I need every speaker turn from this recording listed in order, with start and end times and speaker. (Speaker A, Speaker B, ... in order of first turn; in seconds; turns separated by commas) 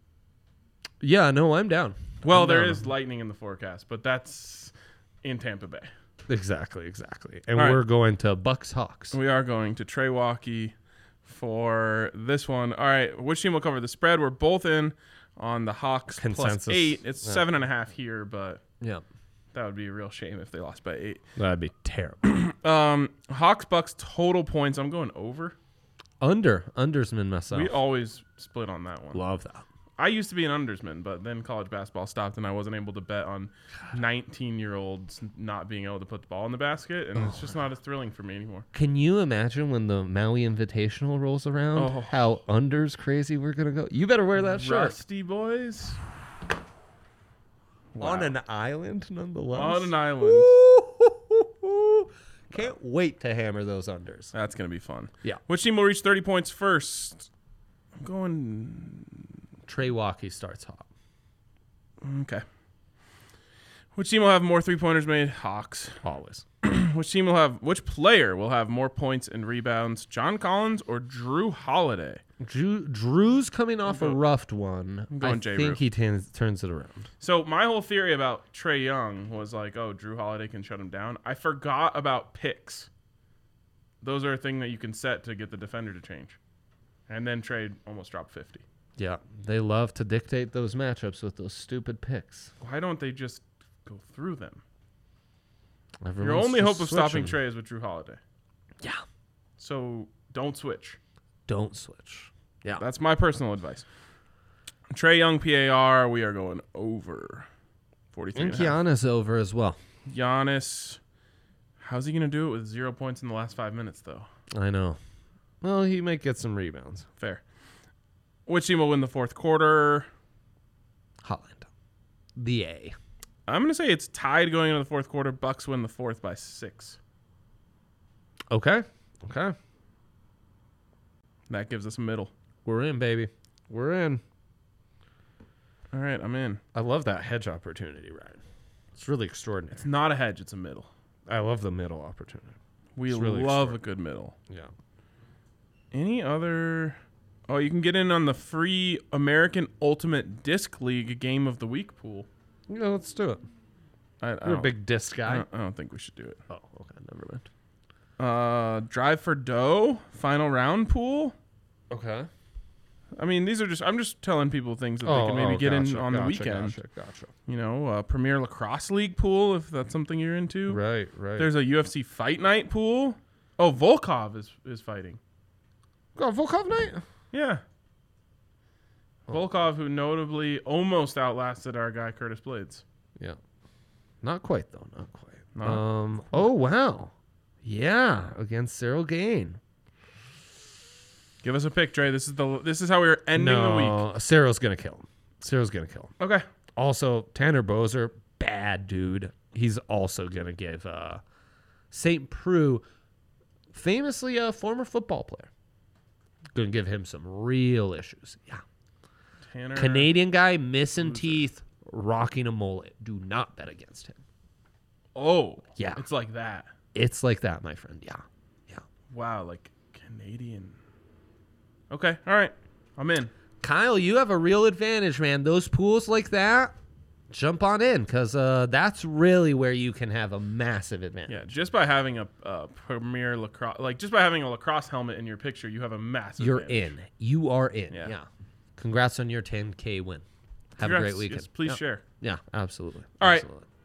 Speaker A: 1.0-2.9, Speaker B: 2.2-5.9, Speaker A: 6.3-9.2, Speaker B: 7.5-7.8, Speaker B: 9.1-18.6, Speaker A: 16.2-17.4, Speaker B: 19.5-21.3, Speaker A: 21.4-22.2, Speaker B: 22.2-25.6, Speaker A: 26.2-27.8, Speaker B: 27.5-29.2, Speaker A: 29.1-29.6, Speaker B: 30.0-38.6, Speaker A: 37.2-37.5, Speaker A: 38.7-45.0, Speaker B: 41.7-42.2, Speaker B: 44.4-46.0, Speaker B: 47.9-48.3, Speaker A: 48.0-54.3, Speaker B: 49.5-50.5, Speaker B: 54.3-57.3, Speaker B: 58.0-59.3, Speaker A: 59.7-60.9, Speaker B: 62.0-62.4, Speaker B: 63.9-66.0, Speaker A: 66.0-66.4, Speaker B: 66.6-72.2, Speaker A: 72.4-77.1, Speaker B: 73.8-74.2, Speaker B: 75.1-75.8, Speaker B: 77.2-82.9, Speaker B: 84.0-86.4, Speaker B: 87.1-88.6, Speaker A: 89.0-92.5, Speaker B: 92.6-94.6, Speaker A: 96.0-97.4, Speaker B: 96.2-98.2, Speaker B: 99.6-101.0, Speaker A: 101.5-102.8, Speaker B: 102.8-103.8, Speaker B: 104.9-107.5, Speaker B: 108.1-108.8, Speaker A: 108.3-109.8, Speaker B: 110.0-111.0, Speaker B: 111.8-114.3, Speaker A: 114.5-115.0, Speaker A: 115.6-117.1, Speaker B: 117.2-117.4, Speaker B: 118.5-120.1, Speaker A: 121.2-121.7, Speaker A: 122.4-123.0, Speaker B: 123.5-127.0, Speaker A: 128.5-129.5, Speaker B: 131.5-132.3, Speaker A: 132.6-134.2, Speaker B: 135.9-136.6, Speaker A: 136.7-138.4, Speaker A: 138.9-139.8, Speaker B: 139.7-140.9, Speaker A: 141.3-142.6, Speaker B: 142.9-144.3, Speaker A: 143.1-143.8, Speaker B: 145.9-152.3, Speaker A: 152.7-153.4, Speaker B: 154.2-156.4, Speaker A: 154.4-155.4, Speaker A: 156.5-157.5, Speaker B: 158.2-161.3, Speaker A: 161.9-162.3, Speaker B: 163.2-166.8, Speaker A: 165.0-167.3, Speaker B: 167.5-170.8, Speaker A: 170.7-171.5, Speaker B: 171.3-175.2, Speaker A: 176.2-177.0, Speaker B: 177.3-177.6, Speaker B: 179.3-182.8, Speaker A: 184.2-187.1, Speaker B: 185.6-185.8, Speaker A: 187.6-189.6, Speaker B: 191.4-194.1, Speaker A: 193.3-196.1, Speaker B: 196.2-196.4, Speaker A: 196.8-201.2, Speaker A: 201.9-202.8, Speaker A: 203.7-205.5, Speaker A: 206.5-208.6, Speaker B: 209.5-210.1, Speaker A: 209.7-214.2, Speaker B: 211.0-211.4, Speaker B: 215.1-216.7, Speaker A: 215.8-216.0, Speaker A: 216.9-218.8, Speaker B: 219.1-220.8, Speaker B: 221.9-223.3, Speaker A: 223.6-226.8, Speaker A: 227.3-231.5, Speaker B: 231.3-236.9, Speaker A: 236.4-243.7, Speaker B: 240.8-242.0, Speaker B: 243.2-243.5